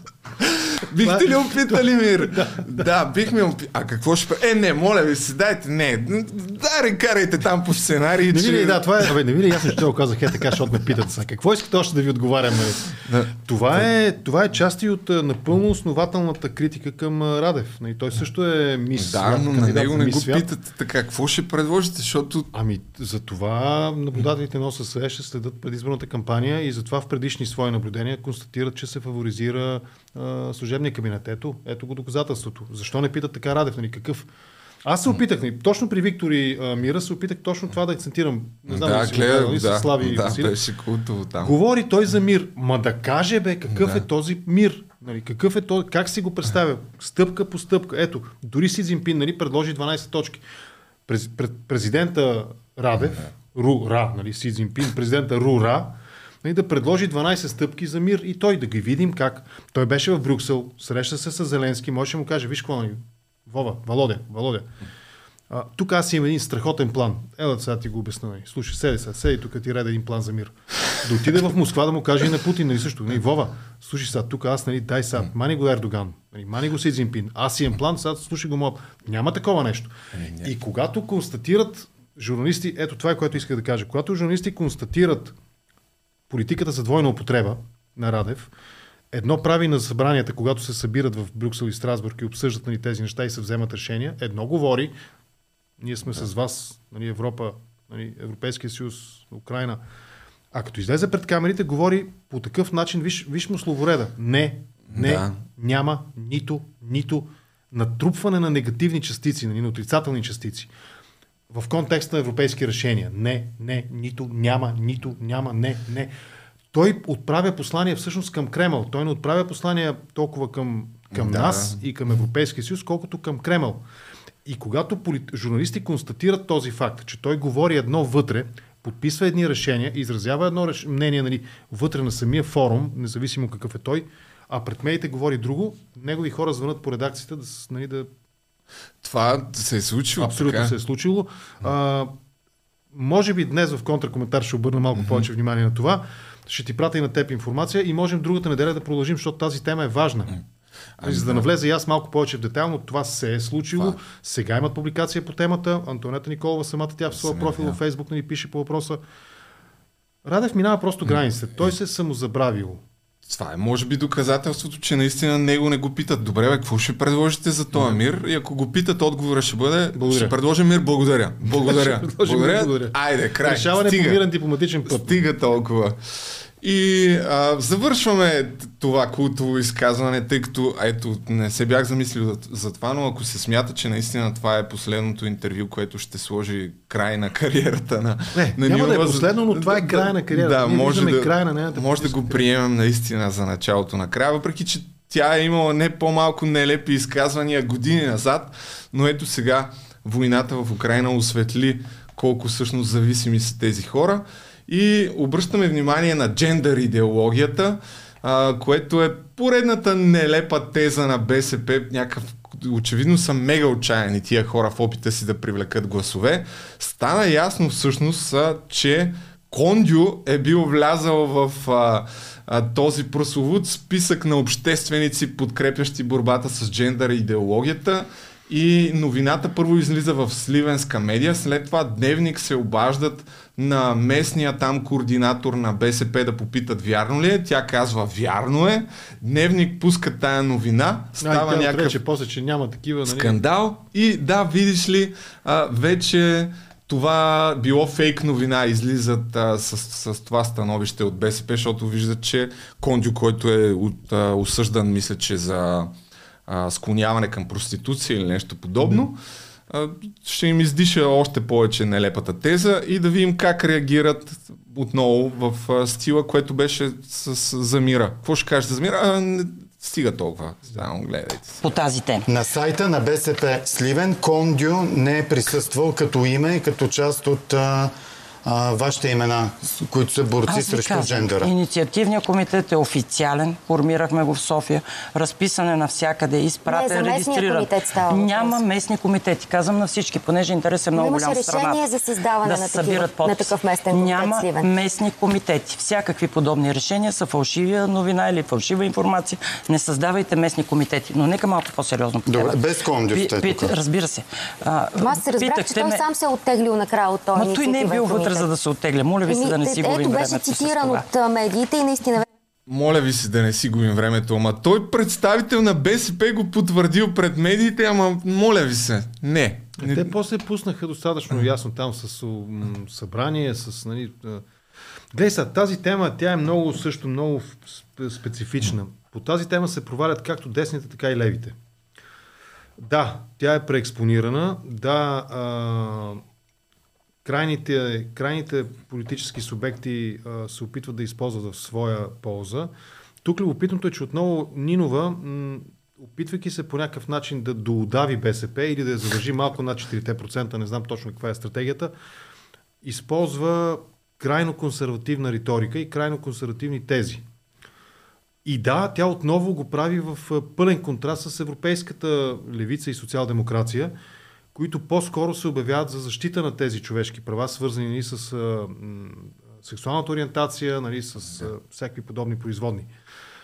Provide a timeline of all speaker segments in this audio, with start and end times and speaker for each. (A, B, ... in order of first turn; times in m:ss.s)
0:00.4-0:08.8 A
0:01.0-0:02.9 B
0:08.3-0:20.5 B
0:13.0-0:13.9 A
0:19.0-0:22.5 A
0:22.5-0:34.3 B
0:34.8-0:40.6 B
0:38.7-0:41.6 A
0:41.4-0:50.4 B
0:51.1-1:04.7 B
1:05.5-1:25.4 B
1:20.2-1:20.5 A
1:26.3-1:28.5 B
1:29.1-1:34.9 B
1:35.8-1:39.8 B
1:40.5-1:50.7 B
1:44.9-1:45.4 A
1:51.5-1:56.1 B
1:56.7-2:03.8 B
2:01.1-2:01.8 A
2:04.4-2:18.1 B
2:19.0-2:20.7 A
2:20.2-2:22.2 B
2:22.9-2:30.4 B
2:25.0-2:25.3 A
2:31.0-2:31.5 A
2:31.0-2:39.0 B
2:37.2-2:37.8 A
2:40.2-2:42.8 B
2:43.3-2:54.2 A
2:47.8-2:48.0 B
2:49.9-2:50.4 B
2:51.4-2:55.2 B
2:54.9-2:56.0 A
2:56.6-4:02.0 A
3:08.3-3:12.5 B
4:01.2-4:03.4 B
4:03.0-4:15.9 A
4:16.5-4:31.6 A
4:18.8-4:19.1 B
4:31.6-4:32.3 C
4:32.3-4:37.9 D
4:38.4-4:41.5 D
4:40.5-4:51.9 C
4:46.7-4:48.6 E
4:50.9-4:54.7 E
4:52.4-5:06.1 C
5:02.3-5:03.7 D
5:05.0-5:08.5 E
5:07.3-5:11.1 C
5:09.3-5:12.3 E
5:12.7-5:20.1 A
5:19.8-5:24.4 B
5:25.1-5:31.6 B
5:32.8-5:36.2 B
5:37.2-5:42.7 B
5:43.2-5:51.9 B
5:52.8-5:57.2 B
5:58.4-6:04.0 B
6:04.5-6:12.9 B